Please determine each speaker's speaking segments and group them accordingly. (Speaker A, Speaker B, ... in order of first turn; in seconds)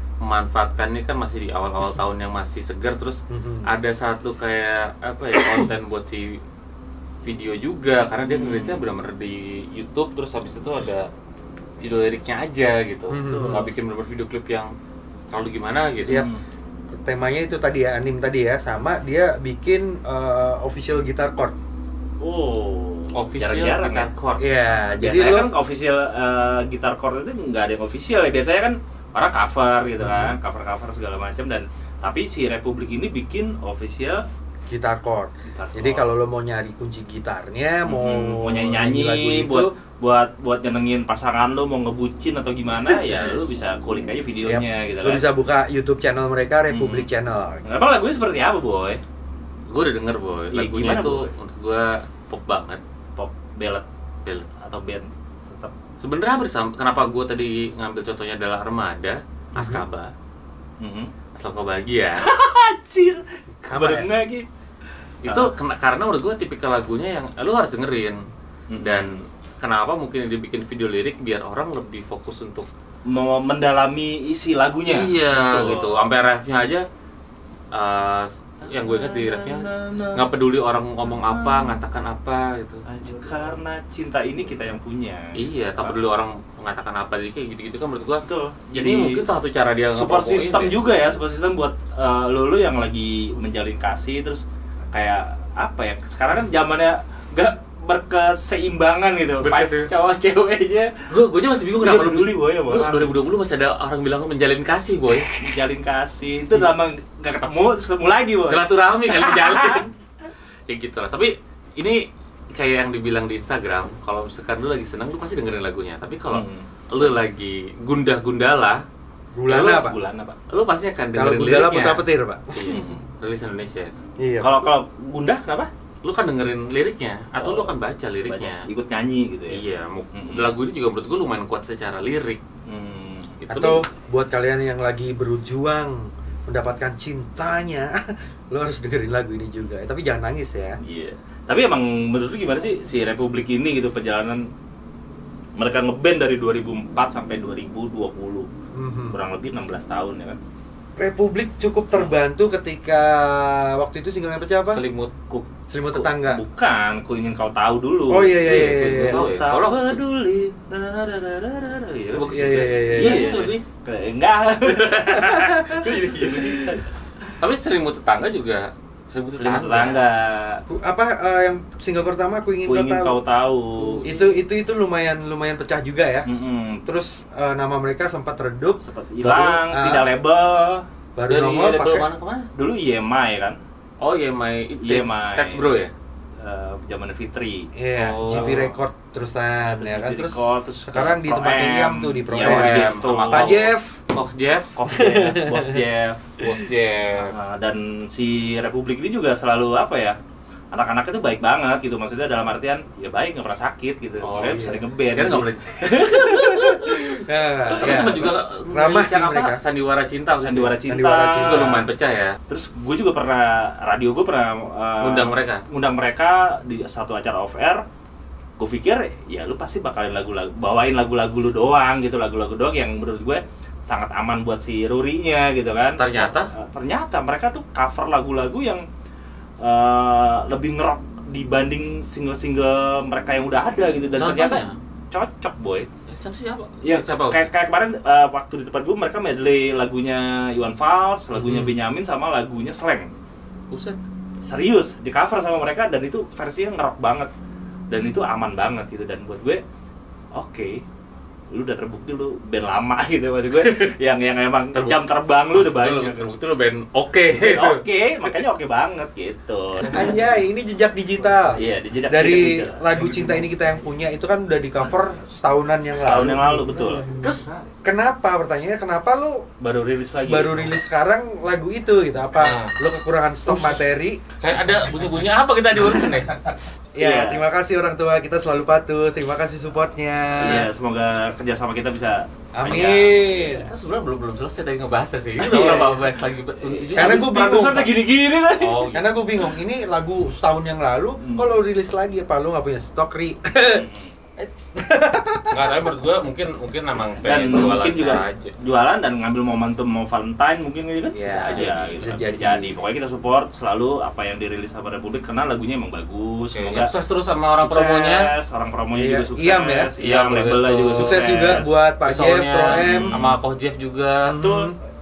Speaker A: 0.2-6.4, 7.2-11.1, 11.8-14.7, 15.3-16.2, 23.1-24.4, 49.7-52.8, 56.0-60.1, 61.4-62.2, 65.2-68.2, 68.8-72.7, 74.9-76.8, 77.7-82.8, 85.4-88.2, 88.7-90.8, 99.4-99.9, 101.1-105.3, 108.5-109.9, 110.7-112.0, 112.5-118.8, 120.5-123.9, 126.0-128.7, 129.5-132.4, 133.5-133.8, 154.7-155.1, 158.4-160.0, 162.1-163.6, 165.8-166.6, 167.4-170.1, 173.9-174.3, 181.3-182.5, 184.0-185.9, 187.9-188.7, 192.3-194.7, 196.4-197.3, 204.2-206.2, 207.7-210.8, 211.4-212.4, 215.0-215.6, 226.0-226.5, 234.1-234.8, 236.1-237.5, 241.3-241.8, 243.7-244.0, 254.7-257.8, 272.4-272.8, 273.5-273.8, 274.4-276.5, 283.5-287.3, 288.6-289.1, 295.5-298.5, 301.3-302.1, 306.5-308.3, 310.0-314.4
Speaker B: 3.3-3.7, 13.1-13.7, 16.9-21.6, 24.4-25.5, 30.0-30.4, 34.7-39.7, 42.9-43.1, 44.4-47.6, 59.6-59.9, 63.7-64.1, 119.3-120.0, 121.1-122.7, 124.2-124.6, 133.5-140.8, 148.7-149.2, 151.0-154.8, 155.7-156.4, 158.1-159.3, 162.3-163.2, 165.1-166.8, 170.7-173.2, 174.0-176.3, 176.9-180.1, 181.2-182.1, 187.8-194.0, 194.9-195.7, 204.5-204.8, 206.3-209.6, 210.8-211.9, 259.8-269.4, 270.2-274.2, 276.9-280.7, 282.5-283.7, 285.4-285.9, 286.9-288.0, 288.9-293.9, 294.4-295.9, 301.1-302.8, 308.9-309.9, 311.0-313.3, 314.2-314.8
Speaker C: 8.3-8.8, 13.2-13.7, 16.1-16.4, 22.2-24.1, 25.0-34.2, 35.5-36.1, 37.9-45.3, 46.7-47.1, 47.6-49.0, 50.5-51.3, 53.2-53.9, 54.6-55.7, 60.8-61.1, 62.2-64.5, 68.7-69.1, 73.1-75.9, 78.7-80.3, 81.0-81.8, 82.9-86.0, 88.2-89.2, 89.9-101.0, 101.8-103.1, 105.4-109.9, 116.3-116.7, 119.5-120.4, 122.7-123.0, 124.4-125.7, 127.4-127.8, 128.3-129.6, 130.1-130.6, 132.7-133.4, 140.8-144.5, 145.6-148.5, 149.1-150.4, 151.9-152.2, 155.3-166.9, 169.4-170.6, 172.7-174.0, 176.2-176.9, 178.8-180.8, 182.6-183.6, 184.8-185.8, 186.4-187.7, 188.3-188.7, 189.8-193.7, 194.8-196.3, 197.2-200.2, 200.7-207.0, 210.3-211.8, 212.5-217.8, 218.6-228.9, 229.6-235.9, 236.8-243.1, 244.4-247.3, 247.9-249.6, 250.3-250.8, 251.5-256.3, 257.4-260.1, 261.6-263.0, 265.9-267.1, 269.6-270.8, 277.0-277.4, 280.4-283.5, 285.4-289.0, 291.2-291.5, 293.7-294.1, 297.2-306.9, 307.6-311.8, 312.6-313.4, 314.4-314.7